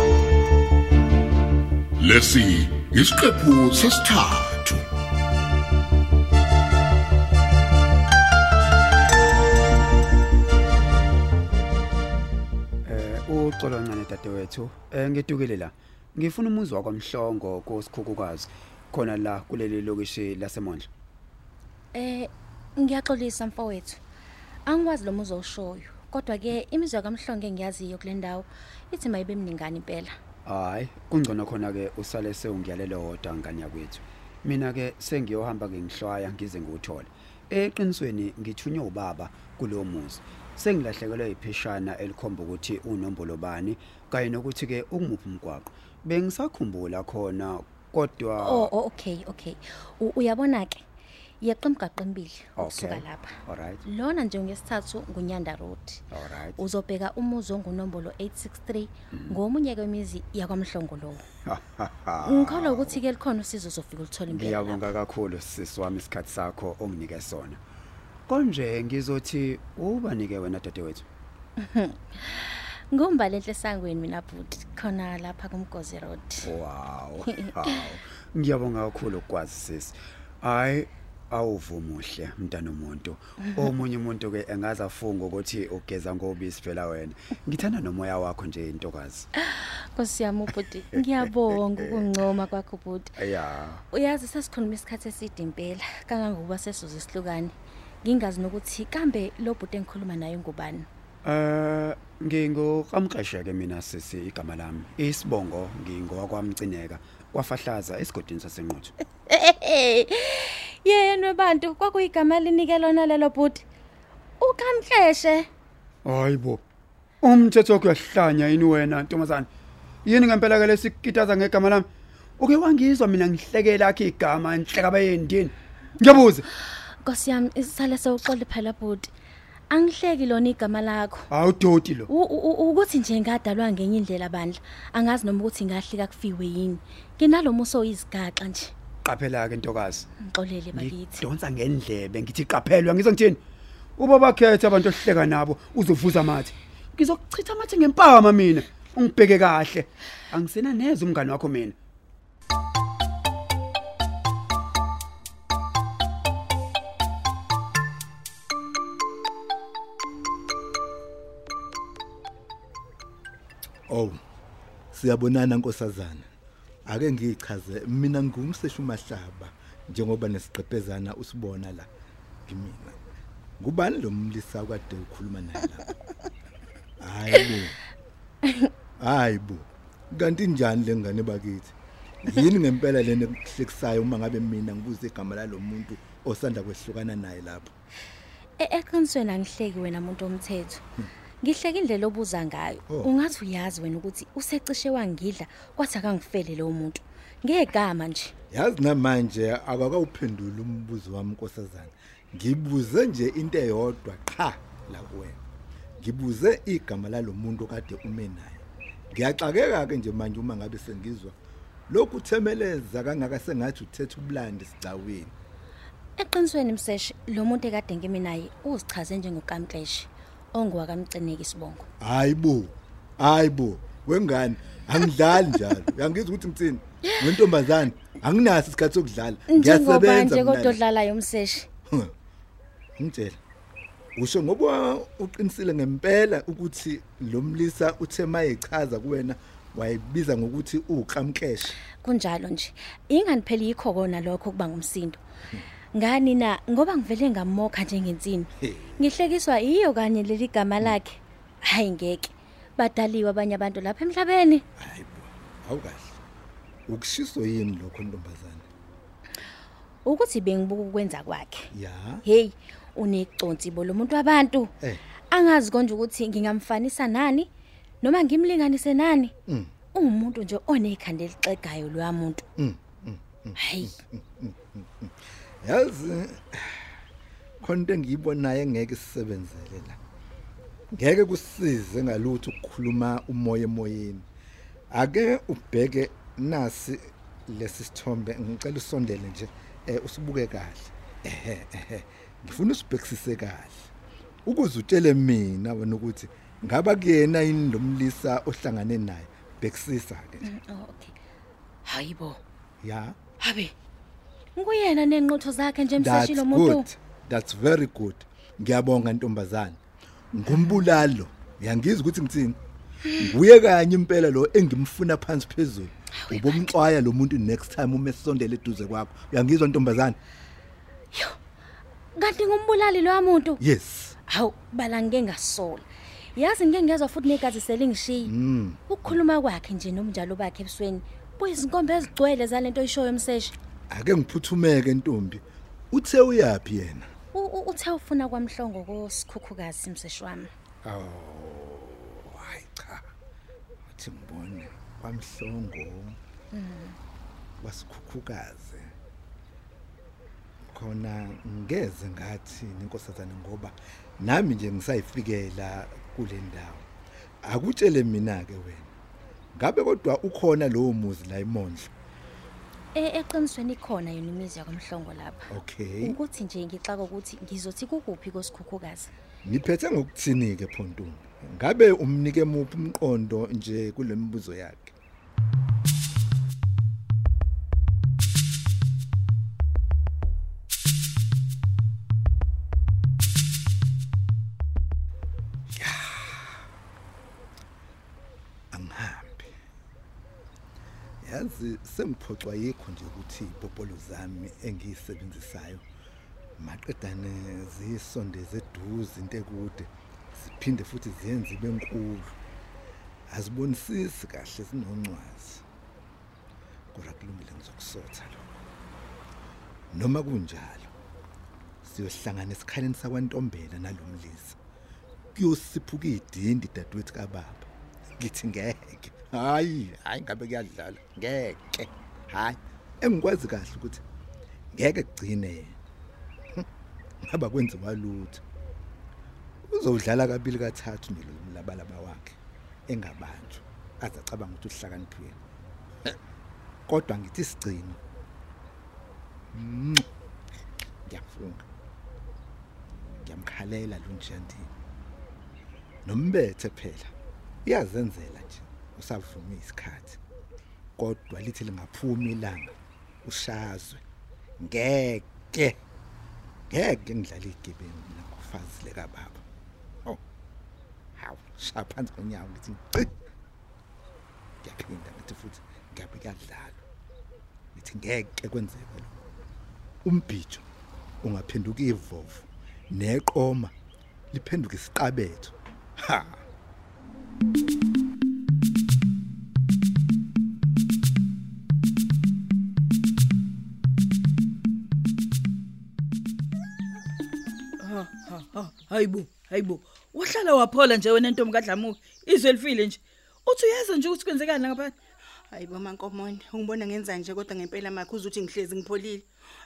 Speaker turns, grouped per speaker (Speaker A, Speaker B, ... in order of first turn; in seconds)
Speaker A: 2.0-4.8
Speaker B: 12.8-20.9, 30.4-48.7, 52.6-53.8, 56.1-56.6, 59.1-59.4, 61.5-63.0, 64.3-67.6, 68.3-71.1, 76.4-89.3, 90.9-92.2, 93.2-93.8, 101.2-108.9, 116.0-116.6, 117.2-119.5, 120.0-126.4, 131.3-132.1, 139.0-140.1, 140.7-143.4, 144.0-151.8
Speaker C: 21.9-24.0, 24.6-30.2, 48.4-50.8, 51.4-56.0, 56.6-61.3, 62.2-64.8, 71.6-76.5, 77.3-77.8, 89.4-93.1, 93.9-100.9, 109.3-113.6, 114.4-115.5, 126.7-129.1, 129.7-131.3, 132.1-138.7, 140.2-141.2, 188.6-190.8, 191.4-198.3, 216.2-221.9, 229.5-231.7, 242.0-245.2, 245.9-254.6, 260.0-261.7, 262.2-264.7, 265.3-267.5, 268.0-269.3, 269.9-272.4, 273.6-273.9, 300.4-301.1, 301.9-302.4, 303.4-303.7, 304.5-306.9, 310.5-310.8, 316.2-316.7, 321.1-321.4, 322.1-323.6, 324.3-328.3, 328.9-333.5, 337.3-340.5, 346.5-347.0, 362.9-365.5, 366.0-369.1
Speaker D: 163.9-164.2, 164.9-166.3, 166.9-171.9, 172.5-173.0, 173.6-175.9, 177.0-177.8, 179.0-187.7, 198.5-205.4, 206.0-211.3, 211.9-215.3, 222.0-230.8, 233.0-233.4, 234.2-241.8, 248.6-248.9, 254.8-256.2, 256.9-258.6, 261.7-262.2, 269.5-269.7, 272.6-276.9, 277.6-280.0, 280.9-284.3, 284.9-293.9, 294.4-300.5, 302.8-303.2, 306.0-309.8, 310.3-312.6, 313.2-320.2, 323.6-324.1, 328.2-329.2, 333.9-337.1, 340.8-343.1, 343.9-346.2, 347.6-348.9, 350.6-356.9, 357.4-358.9, 359.5-361.9, 365.5-366.2, 369.4-374.9, 385.7-386.5, 388.7-389.5, 391.2-395.8, 396.6-402.3, 403.3-405.6, 406.9-408.4, 409.9-410.9, 411.8-414.6, 415.3-424.0, 424.7-425.8, 427.3-428.4, 429.7-435.4, 436.9-438.0, 439.5-440.1, 441.1-441.7, 443.2-444.7, 446.1-447.1, 447.6-450.2, 451.0-452.7, 453.2-454.0, 454.6-455.8, 456.7-459.4, 461.2-463.1, 464.6-466.8, 467.7-469.2, 470.0-470.6, 471.2-473.7, 474.3-476.4
Speaker E: 487.8-494.9
Speaker F: 495.5-499.2